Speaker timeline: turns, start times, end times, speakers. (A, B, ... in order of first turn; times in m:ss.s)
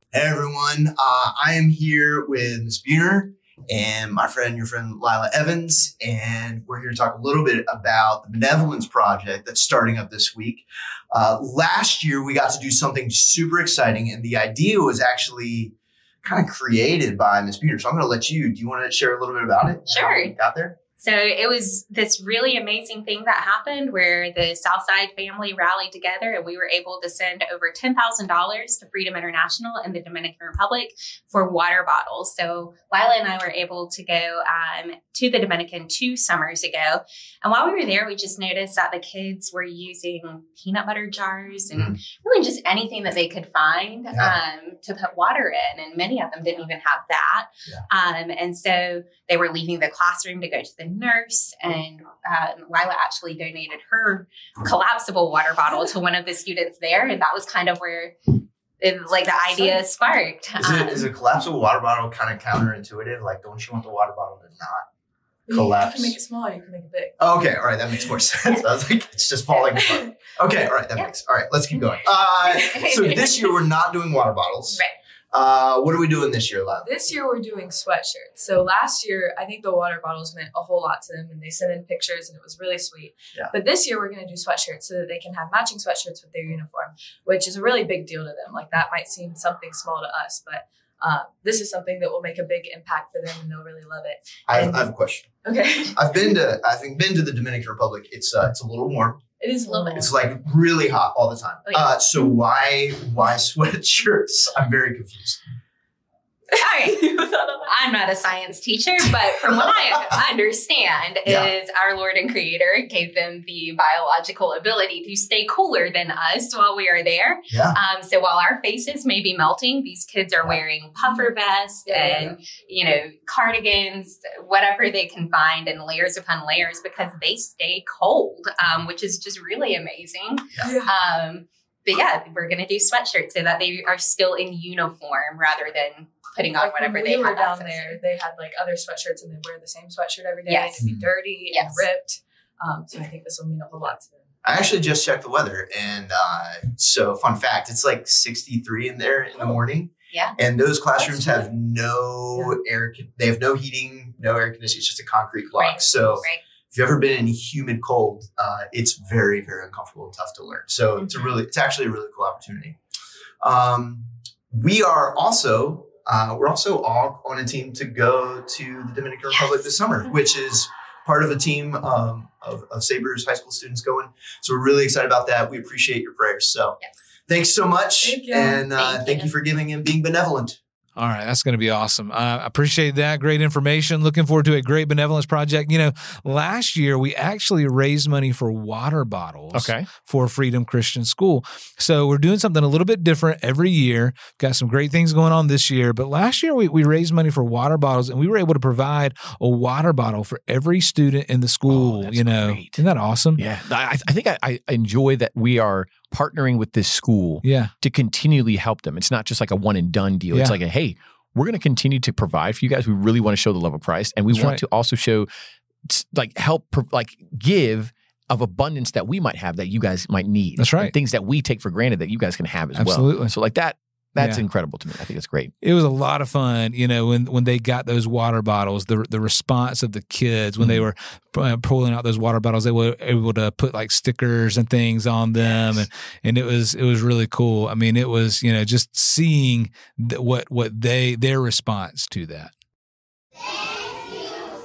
0:00.1-0:20.8 A
0:19.9-0:20.3 B
0:21.0-0:58.2 B
0:58.8-1:01.0 B
0:59.5-0:59.8 C
1:00.6-1:04.9 A
1:05.5-1:07.2 C
1:05.5-1:06.2 A
1:07.2-1:16.9 A
1:09.5-1:10.1 C
1:12.5-1:12.9 C
1:12.7-1:13.6 B
1:16.8-1:34.9 C
1:34.5-1:35.3 A
1:35.4-1:36.4 C
1:35.9-1:39.2 A
1:39.4-1:40.2 C
1:39.7-1:40.0 B
1:40.0-1:45.4 A
1:41.7-1:42.0 B
1:46.5-1:47.7 C
1:47.7-2:18.0 B
1:51.2-1:51.5 A
1:57.5-1:57.8 A
2:01.0-2:01.3 C
2:01.9-2:02.4 C
2:10.6-2:10.9 C
2:16.6-2:24.2 C
2:20.5-2:20.9 B
2:21.5-2:21.8 B
2:24.4-2:42.8 A
2:31.0-2:31.4 C
2:35.6-2:36.4 B
2:43.4-3:00.6 A
2:49.3-2:49.7 B
2:58.0-2:58.8 C
2:58.7-2:59.3 B
3:01.0-3:23.4 D
3:09.5-3:09.9 E
3:21.7-3:22.8 E
3:23.4-3:35.3 E
3:27.4-3:27.7 D
3:30.3-3:30.6 D
3:34.3-3:34.6 D
3:35.9-3:45.5 E
3:40.6-3:40.9 D
3:42.8-3:43.3 D
3:44.2-3:44.4 D
3:45.6-4:02.5 D
3:55.4-3:55.9 E